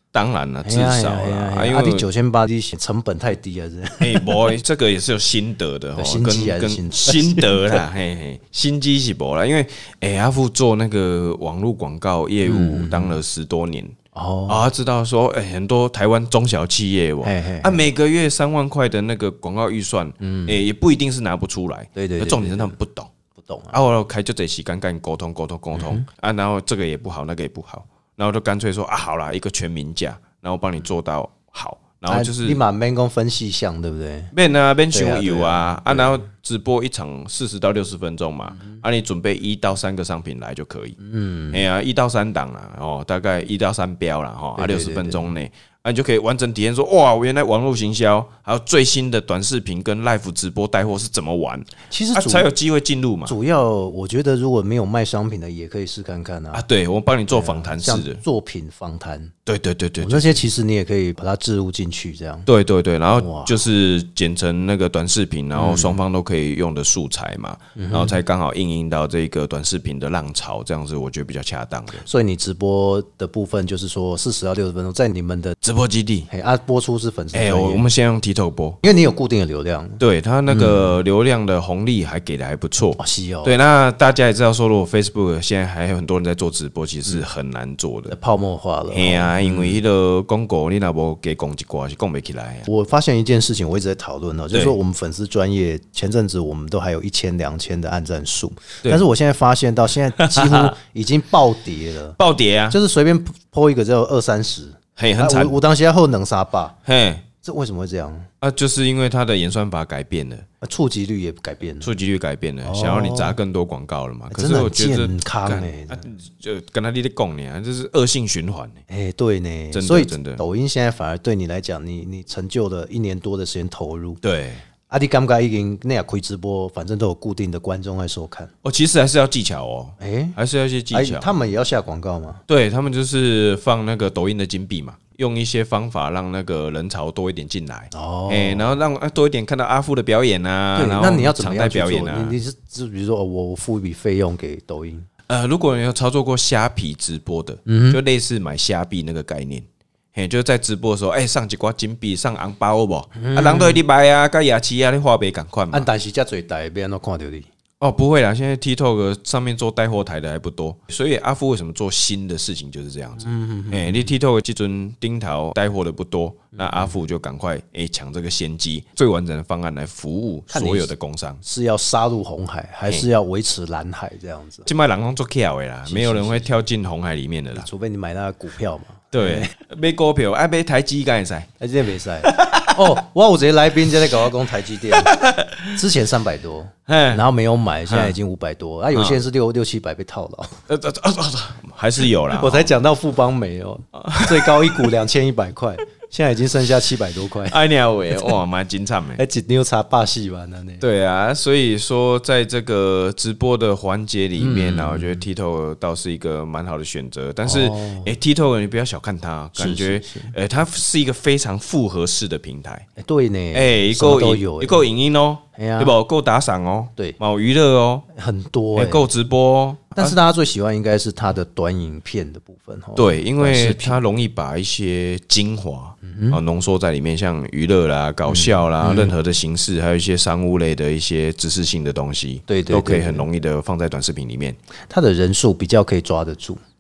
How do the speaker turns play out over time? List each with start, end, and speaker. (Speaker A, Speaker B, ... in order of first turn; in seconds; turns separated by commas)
Speaker A: 0.1-2.0, Speaker B: 0.6-4.3, Speaker A: 4.0-13.9, Speaker B: 6.0-7.8, Speaker B: 12.4-13.2, Speaker B: 14.1-14.7, Speaker A: 14.5-23.1, Speaker B: 17.2-17.8, Speaker B: 20.2-20.6, Speaker B: 22.0-22.8, Speaker B: 23.4-23.8, Speaker A: 23.7-32.6, Speaker B: 25.8-26.1, Speaker B: 32.1-34.3, Speaker A: 34.3-41.0, Speaker B: 34.9-36.2, Speaker B: 41.0-41.6, Speaker A: 41.5-53.4, Speaker B: 44.6-45.3, Speaker B: 51.9-52.5, Speaker B: 53.3-56.6, Speaker A: 56.5-58.2, Speaker B: 57.3-59.3, Speaker A: 59.5-60.4, Speaker B: 60.0-62.5, Speaker A: 62.5-72.0, Speaker B: 63.2-63.6, Speaker B: 65.6-66.0, Speaker B: 67.8-68.2, Speaker B: 72.0-75.6, Speaker A: 75.6-76.3, Speaker B: 76.3-77.8, Speaker A: 77.3-78.8, Speaker B: 78.8-80.9, Speaker A: 80.0-88.2, Speaker B: 83.0-83.5, Speaker B: 88.1-89.8, Speaker A: 88.9-92.7, Speaker B: 92.7-102.2, Speaker A: 100.2-100.8, Speaker A: 102.2-102.8, Speaker B: 102.7-106.8, Speaker A: 105.0-105.6, Speaker A: 106.9-107.3, Speaker B: 107.4-108.3, Speaker A: 108.4-110.5, Speaker B: 110.6-111.9, Speaker A: 111.8-118.8, Speaker B: 112.6-113.4, Speaker B: 114.3-116.1, Speaker B: 118.9-124.2, Speaker A: 119.7-120.4, Speaker A: 124.2-124.6, Speaker B: 124.9-128.5, Speaker A: 128.6-131.3, Speaker B: 130.0-130.4, Speaker B: 130.9-132.4, Speaker A: 132.5-142.4, Speaker B: 137.9-138.7, Speaker B: 140.8-145.1, Speaker A: 145.3-155.9, Speaker B: 147.7-148.0, Speaker B: 153.2-153.8, Speaker B: 155.7-157.5, Speaker A: 157.8-171.4, Speaker B: 163.2-164.0, Speaker B: 166.6-166.9, Speaker B: 170.5-170.9, Speaker B: 171.4-174.7, Speaker A: 174.7-177.7, Speaker B: 175.9-176.5, Speaker B: 177.6-179.6, Speaker A: 179.1-181.5, Speaker B: 181.6-185.2, Speaker A: 182.2-183.0, Speaker A: 184.9-185.8, Speaker B: 185.7-190.6, Speaker A: 186.9-187.2, Speaker A: 187.9-188.2, Speaker A: 188.9-189.2, Speaker A: 190.7-192.7, Speaker B: 192.3-197.6, Speaker A: 193.9-194.9, Speaker A: 197.5-199.2, Speaker B: 199.2-200.8, Speaker A: 200.8-212.9, Speaker B: 204.4-205.2, Speaker B: 207.4-208.1, Speaker B: 209.6-210.3, Speaker B: 213.0-214.8, Speaker A: 213.5-218.1, Speaker B: 215.6-215.9, Speaker B: 218.1-219.1, Speaker A: 218.8-220.2, Speaker B: 219.9-224.0, Speaker A: 223.0-234.6, Speaker B: 226.0-226.4, Speaker B: 228.3-229.1, Speaker B: 232.5-233.3, Speaker B: 234.9-236.6